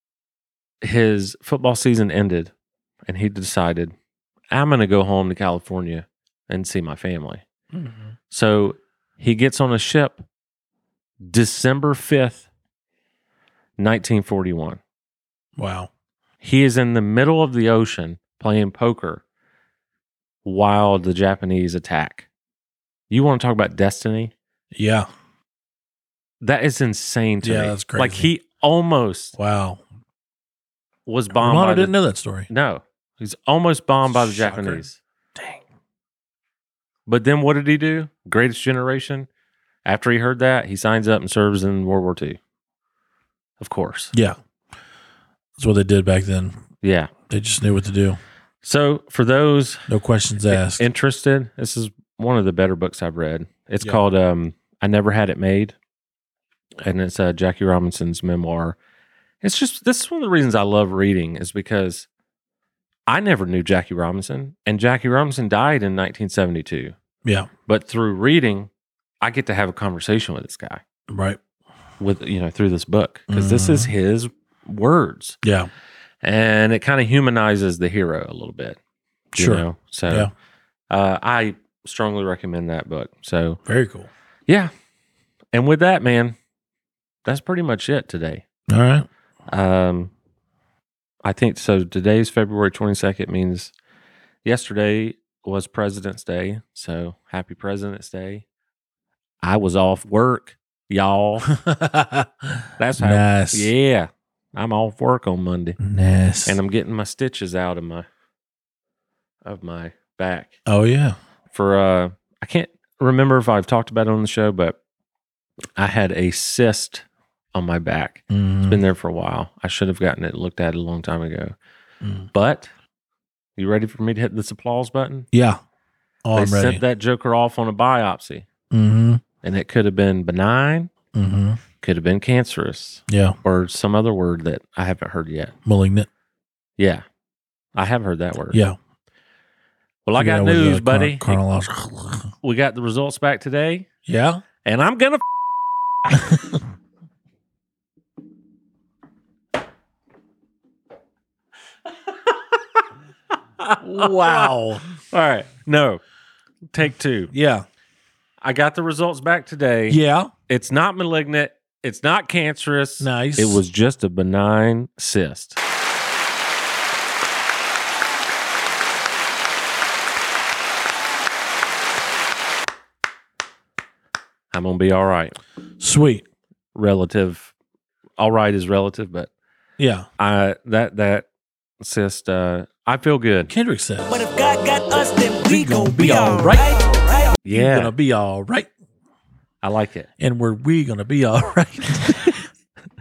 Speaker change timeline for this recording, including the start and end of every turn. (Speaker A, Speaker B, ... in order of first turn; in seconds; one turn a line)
Speaker A: 0.8-2.5
Speaker A: 3.0-3.9
Speaker A: 4.5-7.4
Speaker B: 7.7-8.1
Speaker A: 8.3-10.2
Speaker A: 11.2-12.5
Speaker A: 13.8-14.8
Speaker B: 15.6-15.9
Speaker A: 16.4-19.2
Speaker A: 20.4-22.3
Speaker A: 23.1-24.3
Speaker B: 24.7-25.1
Speaker A: 26.4-29.4
Speaker B: 27.4-28.3
Speaker B: 29.4-29.8
Speaker A: 31.1-31.9
Speaker B: 31.3-32.5
Speaker A: 32.5-35.0
Speaker B: 34.1-34.8
Speaker B: 35.4-35.6
Speaker A: 37.1-39.3
Speaker A: 39.8-42.4
Speaker A: 43.6-44.1
Speaker B: 44.1-44.4
Speaker B: 45.6-46.6
Speaker A: 46.8-47.1
Speaker B: 47.3-48.2
Speaker A: 48.6-49.9
Speaker B: 49.9-50.8
Speaker A: 50.5-55.8
Speaker A: 56.8-58.8
Speaker A: 59.4-62.1
Speaker A: 63.1-67.0
Speaker A: 67.7-68.7
Speaker A: 69.2-70.8
Speaker B: 71.1-71.4
Speaker A: 72.0-75.4
Speaker B: 73.3-73.9
Speaker B: 75.4-75.7
Speaker A: 76.2-78.8
Speaker B: 79.3-80.3
Speaker A: 79.4-80.3
Speaker A: 80.9-83.6
Speaker B: 83.7-84.1
Speaker A: 85.5-86.3
Speaker A: 87.2-88.4
Speaker B: 88.7-89.1
Speaker A: 89.5-90.1
Speaker A: 91.2-93.7
Speaker A: 94.4-98.4
Speaker A: 99.4-101.5
Speaker B: 101.5-103.7
Speaker A: 102.8-105.8
Speaker B: 105.8-106.6
Speaker A: 106.5-108.0
Speaker A: 109.4-110.6
Speaker B: 110.7-111.2
Speaker A: 111.5-114.8
Speaker A: 115.8-121.5
Speaker B: 118.3-118.8
Speaker B: 122.0-122.3
Speaker A: 122.3-122.7
Speaker A: 123.6-125.3
Speaker B: 125.3-125.6
Speaker B: 126.2-126.8
Speaker A: 126.3-128.5
Speaker B: 128.7-129.2
Speaker A: 129.4-130.9
Speaker B: 131.1-131.6
Speaker A: 131.8-135.5
Speaker B: 133.1-133.4
Speaker B: 135.6-136.1
Speaker A: 136.8-137.0
Speaker A: 137.7-138.6
Speaker B: 138.5-138.8
Speaker A: 140.0-141.4
Speaker B: 140.2-142.3
Speaker A: 142.4-143.9
Speaker B: 144.1-144.4
Speaker A: 144.6-145.2
Speaker B: 146.1-146.6
Speaker A: 153.6-156.0
Speaker B: 153.8-154.8
Speaker A: 156.7-157.3
Speaker B: 157.3-157.7
Speaker A: 158.4-165.6
Speaker B: 159.9-160.3
Speaker B: 163.0-163.6
Speaker A: 174.5-175.4
Speaker B: 175.8-176.2
Speaker A: 176.7-177.5
Speaker A: 178.2-179.3
Speaker B: 179.8-180.1
Speaker A: 180.2-181.3
Speaker A: 181.8-183.5
Speaker B: 183.5-184.2
Speaker C: 184.1-187.4
Speaker B: 185.4-186.8
Speaker A: 187.4-187.9
Speaker B: 187.5-188.7
Speaker A: 189.6-190.1
Speaker B: 190.2-192.5